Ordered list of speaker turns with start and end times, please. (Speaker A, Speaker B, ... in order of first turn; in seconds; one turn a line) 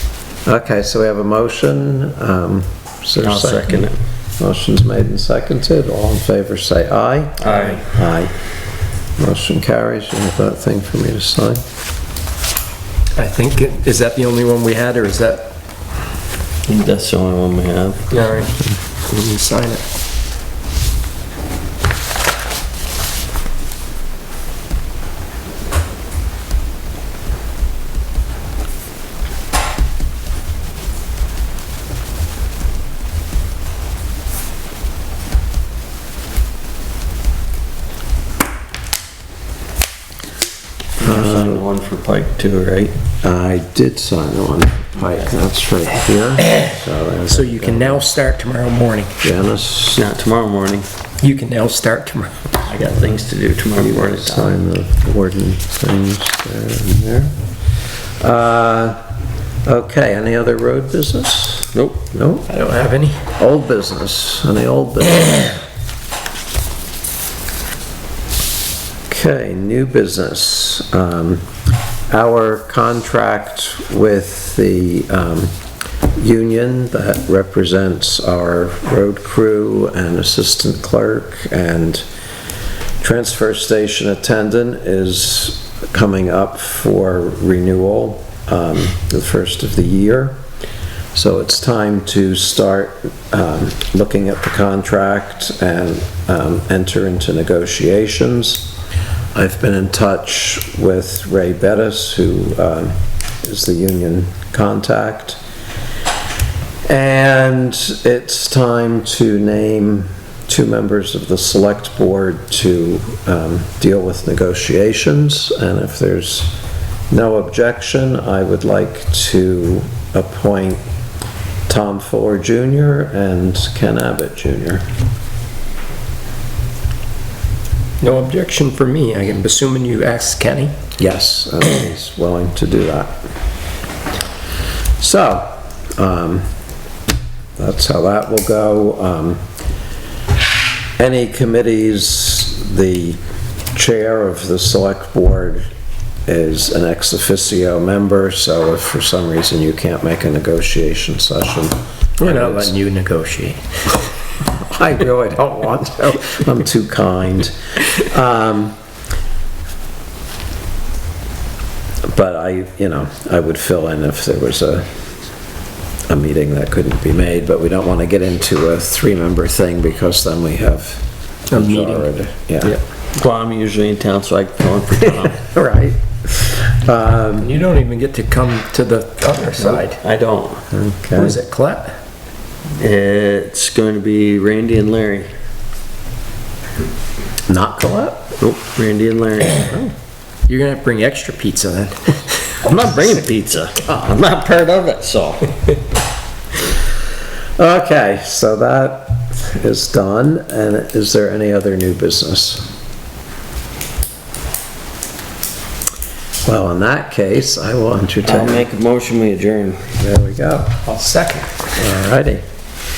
Speaker A: 0.4-3.9
Speaker B: 3.2-4.0
Speaker A: 4.4-8.3
Speaker B: 7.4-7.8
Speaker A: 9.2-11.6
Speaker C: 13.2-15.5
Speaker B: 16.6-18.5
Speaker C: 18.1-18.5
Speaker C: 19.1-19.8
Speaker B: 41.0-42.9
Speaker A: 41.0-41.6
Speaker A: 43.2-48.0
Speaker C: 47.3-49.1
Speaker A: 49.2-50.1
Speaker B: 50.0-50.9
Speaker C: 51.2-52.3
Speaker B: 52.7-54.6
Speaker A: 53.8-57.4
Speaker A: 58.2-59.0
Speaker A: 59.6-62.5
Speaker B: 61.7-62.0
Speaker C: 62.5-63.2
Speaker A: 63.3-65.6
Speaker A: 69.1-71.5
Speaker A: 72.1-75.5
Speaker A: 76.1-82.0
Speaker A: 83.0-90.3
Speaker A: 91.1-98.6
Speaker A: 99.3-105.4
Speaker A: 106.9-116.5
Speaker A: 117.1-120.8
Speaker A: 121.7-124.8
Speaker C: 128.0-130.7
Speaker A: 131.0-133.2
Speaker A: 135.0-136.5
Speaker A: 137.6-139.4
Speaker A: 141.0-143.2
Speaker A: 143.7-145.7
Speaker A: 146.2-152.7
Speaker C: 152.2-154.0
Speaker A: 154.6-158.7
Speaker A: 162.1-164.9
Speaker A: 166.1-172.8
Speaker C: 171.5-172.0
Speaker B: 173.1-175.3
Speaker A: 175.3-177.5
Speaker C: 177.4-180.0
Speaker B: 179.6-180.6
Speaker A: 180.7-181.4
Speaker C: 181.1-181.9
Speaker B: 182.8-185.3
Speaker A: 187.5-188.3
Speaker B: 188.4-189.9
Speaker C: 190.5-192.6
Speaker B: 192.6-195.5
Speaker A: 197.6-202.7
Speaker A: 206.4-208.7
Speaker B: 208.2-209.9
Speaker A: 210.0-210.8
Speaker C: 210.8-211.5
Speaker A: 211.7-212.4